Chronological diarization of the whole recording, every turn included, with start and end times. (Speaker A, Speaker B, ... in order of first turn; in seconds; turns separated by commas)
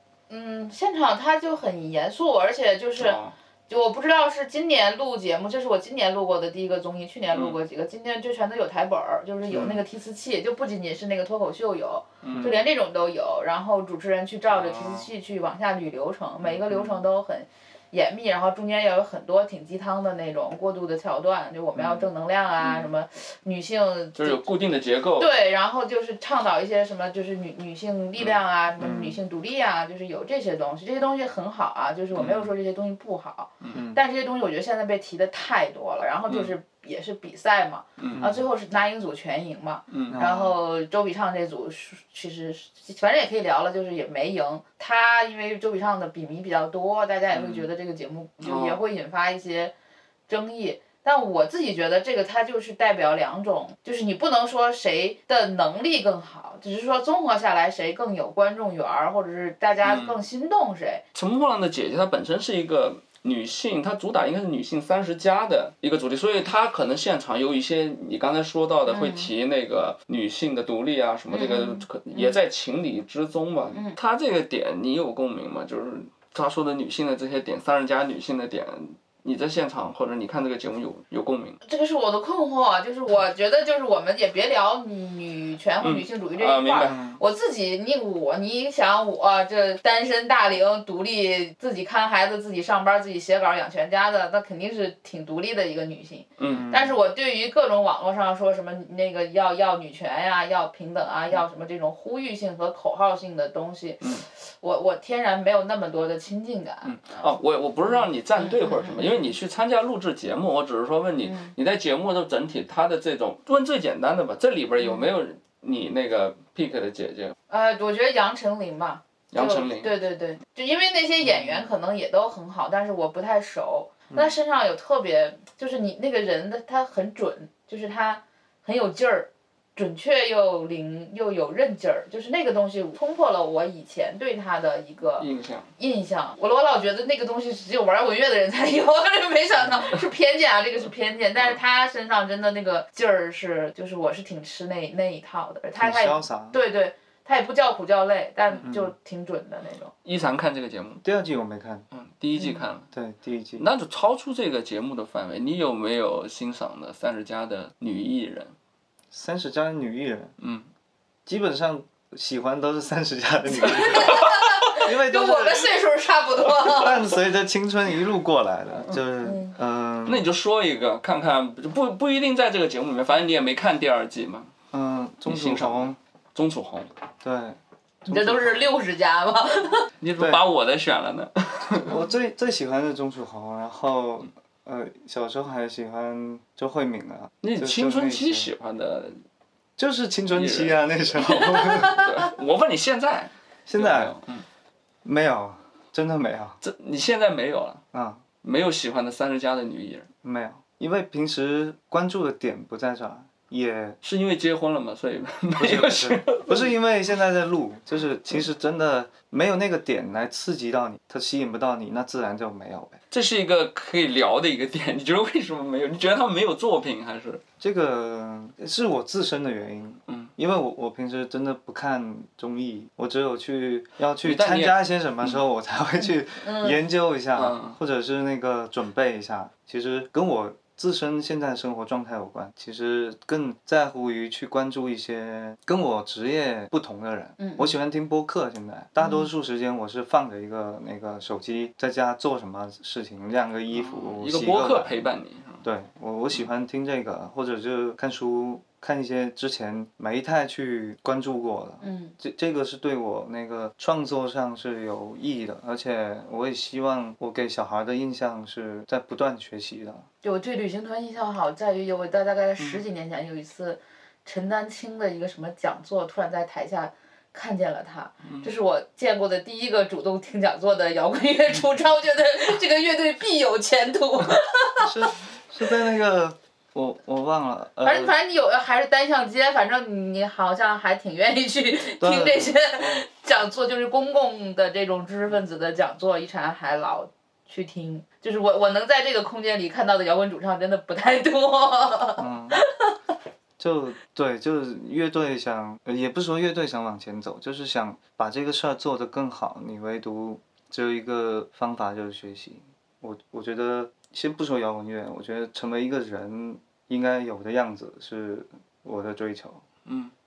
Speaker A: 0.3-24.4, Speaker B: 3.0-3.3, Speaker B: 9.5-9.8, Speaker B: 12.2-12.6, Speaker B: 14.5-15.1, Speaker B: 22.6-22.9, Speaker B: 24.1-25.4, Speaker A: 25.2-49.7, Speaker C: 28.8-29.2, Speaker B: 32.1-32.4, Speaker C: 33.7-34.0, Speaker C: 38.1-38.4, Speaker B: 39.9-40.2, Speaker C: 40.1-40.5, Speaker B: 47.3-47.6, Speaker B: 48.4-48.8, Speaker A: 50.3-61.0, Speaker B: 59.8-60.2, Speaker B: 61.1-81.6, Speaker A: 68.9-69.3, Speaker A: 71.3-72.4, Speaker A: 73.7-74.0, Speaker A: 81.7-107.3, Speaker B: 85.8-87.0, Speaker C: 86.9-87.2, Speaker B: 96.4-96.7, Speaker C: 96.4-97.0, Speaker B: 106.8-117.3, Speaker A: 107.8-109.3, Speaker A: 111.2-111.5, Speaker A: 114.8-115.1, Speaker A: 117.5-135.3, Speaker B: 119.3-119.9, Speaker C: 124.1-124.4, Speaker B: 135.2-135.7, Speaker A: 135.8-149.9, Speaker C: 145.8-146.6, Speaker C: 148.7-148.9, Speaker B: 150.1-151.0, Speaker C: 151.0-151.9, Speaker B: 151.9-152.9, Speaker A: 152.4-152.7, Speaker C: 152.9-153.7, Speaker B: 153.6-158.5, Speaker C: 159.1-160.3, Speaker B: 160.4-160.7, Speaker C: 161.3-165.7, Speaker A: 163.5-167.1, Speaker C: 166.6-170.3, Speaker A: 169.2-169.5, Speaker B: 170.1-174.5, Speaker C: 174.7-175.9, Speaker B: 175.3-176.9, Speaker C: 177.2-178.7, Speaker A: 178.1-179.9, Speaker B: 180.0-181.9, Speaker C: 180.2-180.4, Speaker C: 181.7-188.5, Speaker B: 187.4-189.2, Speaker C: 189.8-192.1, Speaker B: 190.3-194.4, Speaker C: 193.7-194.1, Speaker C: 195.1-196.6, Speaker B: 196.6-197.8, Speaker C: 197.9-198.2, Speaker B: 198.4-200.1, Speaker C: 200.2-204.0, Speaker B: 204.0-206.7, Speaker C: 205.6-213.0, Speaker B: 213.1-217.4, Speaker C: 217.6-244.9, Speaker B: 220.1-220.3, Speaker B: 224.2-225.4, Speaker A: 226.4-226.8, Speaker B: 227.3-227.8, Speaker A: 237.4-237.7, Speaker A: 239.0-239.3, Speaker B: 243.7-245.6, Speaker C: 245.6-260.1, Speaker A: 251.8-252.1, Speaker A: 260.2-275.1, Speaker B: 268.2-268.5, Speaker C: 274.8-278.1, Speaker A: 277.8-292.9, Speaker C: 282.0-283.0, Speaker C: 292.2-292.6, Speaker C: 293.6-309.6, Speaker B: 309.9-310.1